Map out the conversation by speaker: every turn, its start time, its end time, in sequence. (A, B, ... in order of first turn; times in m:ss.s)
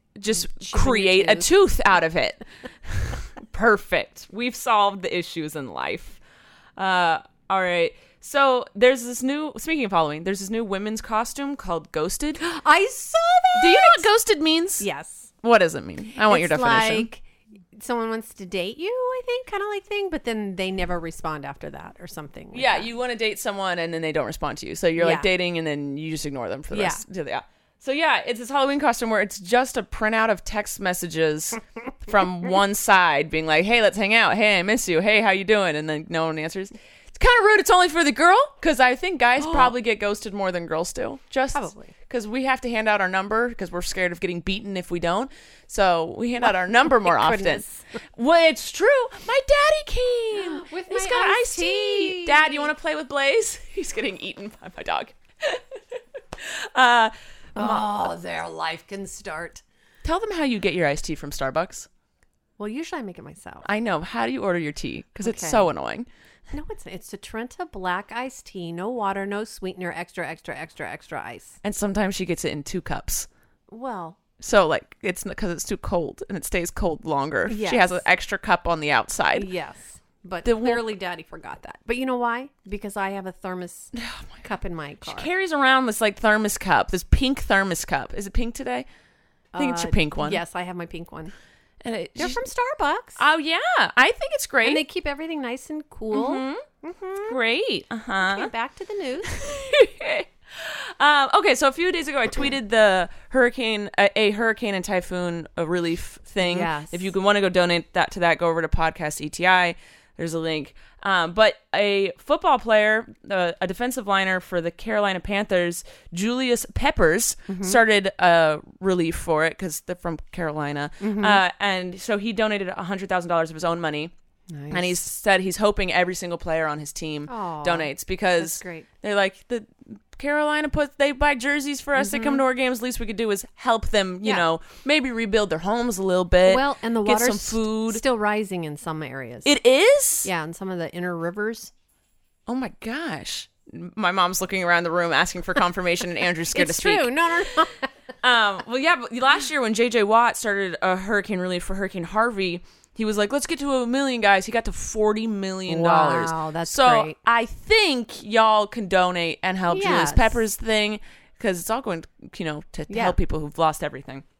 0:00.2-0:06.2 A
0:00.3-0:01.5 B
0:06.8-0:12.4 A
0:12.4-0:14.1 B
0:13.6-0:14.9 A
0:14.8-0:15.3 B
0:15.4-0:17.1 A
0:16.2-0:22.9 B
0:22.5-0:47.6 A
0:25.0-0:25.3 B
0:26.7-0:27.0 B
0:39.4-0:39.7 B
0:41.5-0:41.9 B
0:46.4-0:47.8 B
0:48.2-0:55.6 A
0:50.4-0:52.7 B
0:56.4-0:57.9 A
0:57.6-0:59.6 B
1:00.0-1:01.9 A
1:02.6-1:03.7 B
1:03.6-1:06.1 A
1:05.2-1:05.7 B
1:06.5-1:11.6 B
1:11.6-1:13.3 A
1:13.7-1:14.2 B
1:14.4-1:19.5 A
1:17.5-1:18.0 B
1:19.4-1:25.3 B
1:20.4-1:20.9 A
1:23.9-1:24.4 A
1:25.0-1:28.9 A
1:29.5-1:31.3 B
1:29.6-1:30.4 A
1:31.8-1:32.4 A
1:32.2-1:33.2 B
1:33.2-1:34.8 A
1:34.6-1:37.4 B
1:36.1-1:36.6 A
1:37.3-1:38.5 A
1:38.2-1:39.3 B
1:39.3-2:04.1 A
1:46.4-1:47.1 B
1:57.5-1:57.8 B
2:01.0-2:01.4 B
2:04.5-2:05.0 B
2:04.7-2:18.0 A
2:07.3-2:08.9 B
2:12.0-2:12.4 B
2:16.4-2:19.5 B
2:19.4-2:20.3 A
2:20.2-2:21.7 B
2:22.5-2:27.1 A
2:26.5-2:27.9 B
2:28.2-2:44.2 A
2:35.7-2:37.2 B
2:39.7-2:40.4 B
2:42.9-2:43.2 B